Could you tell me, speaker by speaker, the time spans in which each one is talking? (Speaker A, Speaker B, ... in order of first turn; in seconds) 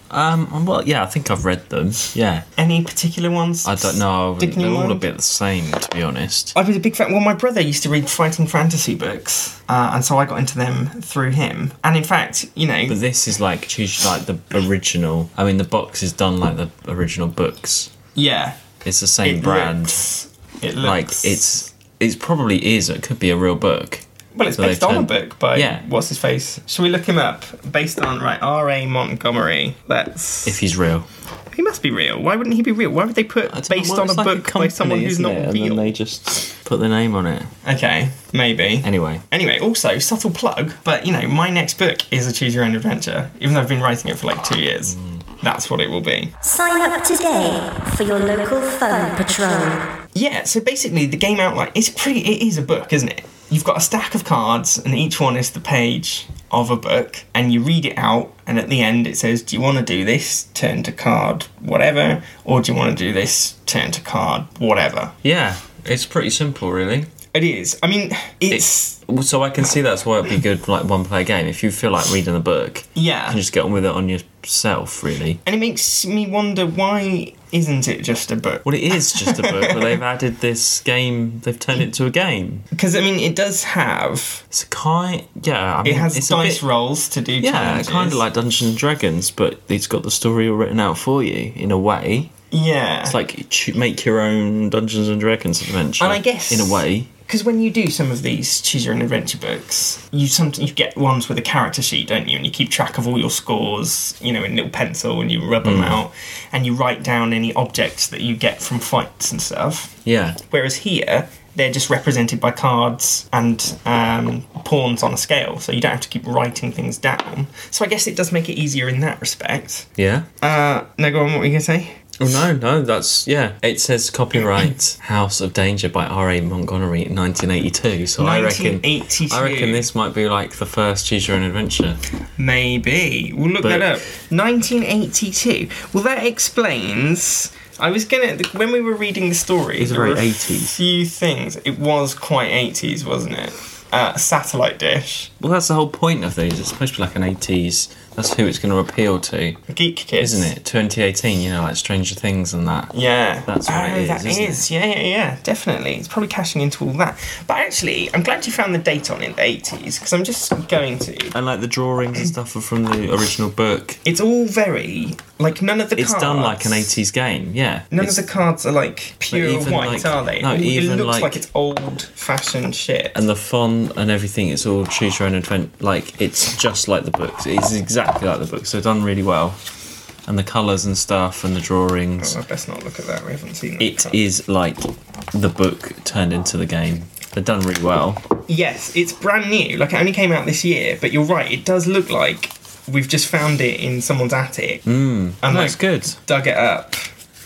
Speaker A: 0.1-2.4, 3.6-6.5, 12.9-17.9, 18.8-20.1, 20.8-24.0, 24.6-25.8, 30.4-31.1, 33.5-37.5, 38.8-39.2, 65.2-67.1, 68.5-75.4, 78.6-82.7, 84.5-86.6, 87.4-92.3, 93.0-97.1, 105.6-106.0, 110.0-110.4, 120.0-120.2, 122.2-132.0, 133.6-134.0, 139.8-140.8, 145.4-149.6, 150.2-152.9, 153.4-154.7, 161.3-164.0, 165.9-168.2, 169.3-171.4, 173.1-179.6, 180.2-182.3, 183.8-188.2, 194.8-196.2
Speaker B: 2.5-5.1, 6.5-13.0, 18.1-18.6, 19.2-21.5, 24.3-30.6, 31.5-35.9, 37.6-46.3, 50.1-65.1, 67.3-69.0, 73.0-73.4, 75.4-79.9, 82.7-84.4, 85.8-88.2, 92.5-93.2, 96.0-109.9, 110.5-119.9, 120.4-122.0, 128.2-129.9, 132.4-145.3, 149.7-150.5, 152.9-161.3, 164.0-167.0, 167.9-173.1, 182.2-184.2, 188.5-194.8, 195.4-197.1
Speaker C: 46.4-49.8